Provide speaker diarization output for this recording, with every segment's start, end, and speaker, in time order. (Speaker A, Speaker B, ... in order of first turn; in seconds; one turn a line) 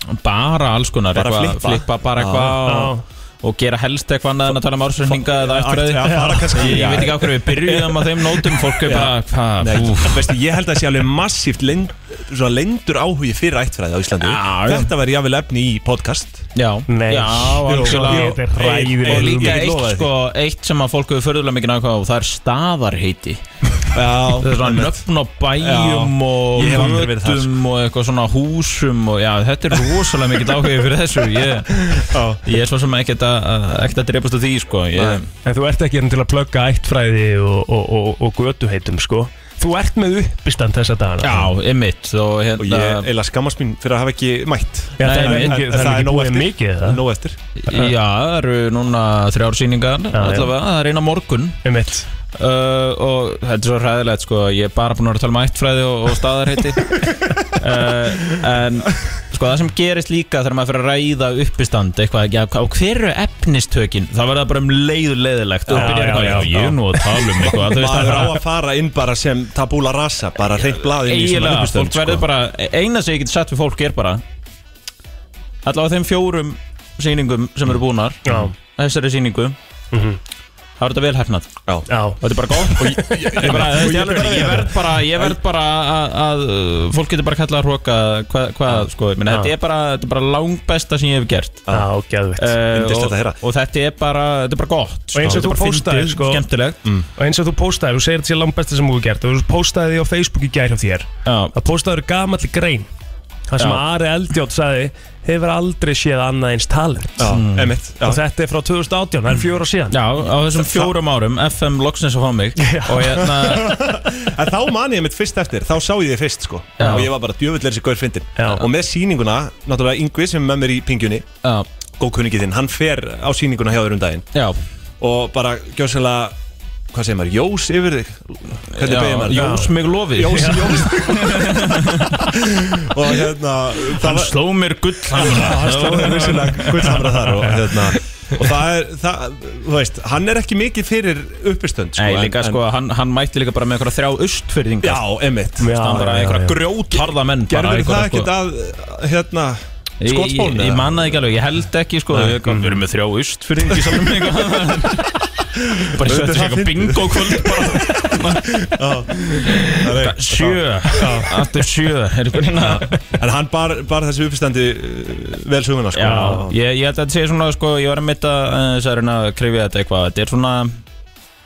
Speaker A: 0.2-10.3
Speaker B: 1.1-2.6
Speaker C: 2.6-3.0
Speaker B: 4.5-16.5
Speaker C: 6.0-6.8
Speaker A: 14.2-14.9
Speaker A: 16.5-23.4
Speaker C: 16.9-19.6
Speaker B: 17.6-20.1
Speaker B: 23.9-25.0
Speaker A: 24.4-35.3
Speaker B: 25.6-27.6
Speaker C: 26.6-27.0
Speaker B: 32.1-32.4
Speaker B: 34.9-35.2
Speaker C: 35.4-41.5
Speaker A: 41.2-43.1
Speaker B: 42.6-47.4
Speaker C: 45.0-47.0
Speaker A: 45.0-45.6
Speaker A: 47.6-51.6
Speaker C: 47.7-47.9
Speaker C: 50.1-50.5
Speaker C: 51.6-52.0
Speaker A: 52.4-68.4
Speaker C: 65.7-68.3
Speaker B: 65.7-66.4
Speaker B: 67.5-72.3
Speaker A: 70.7-74.2
Speaker A: 75.6-79.5
Speaker C: 78.2-78.5
Speaker C: 79.9-80.2
Speaker A: 80.8-81.6
Speaker C: 81.9-82.2
Speaker A: 82.2-91.6
Speaker B: 82.7-85.4
Speaker C: 83.1-84.7
Speaker C: 91.7-92.5
Speaker A: 92.4-96.8
Speaker B: 92.7-93.4
Speaker C: 95.1-96.5
Speaker C: 97.2-102.9
Speaker A: 101.2-101.5
Speaker C: 103.5-107.3
Speaker A: 103.6-103.8
Speaker B: 107.2-108.2
Speaker A: 107.3-107.8
Speaker C: 108.0-110.0
Speaker A: 109.9-113.8
Speaker B: 110.5-110.9
Speaker C: 112.6-113.7
Speaker B: 113.2-121.3
Speaker C: 116.8-117.1
Speaker A: 116.8-117.1
Speaker C: 118.4-118.6
Speaker B: 122.0-124.3
Speaker B: 125.0-126.3
Speaker B: 126.9-134.4
Speaker A: 128.8-132.2
Speaker C: 129.3-129.7
Speaker C: 130.2-131.0
Speaker A: 133.8-137.0
Speaker B: 135.1-142.6
Speaker C: 135.4-137.7
Speaker A: 141.9-145.0
Speaker B: 144.8-146.1
Speaker C: 145.6-147.0
Speaker A: 145.7-148.3
Speaker B: 147.4-151.2
Speaker A: 150.0-155.1
Speaker B: 152.1-152.4
Speaker C: 152.5-152.7
Speaker B: 153.7-154.0
Speaker B: 155.6-161.4
Speaker A: 155.9-163.0
Speaker B: 162.5-166.6
Speaker A: 165.9-170.8
Speaker C: 166.0-166.5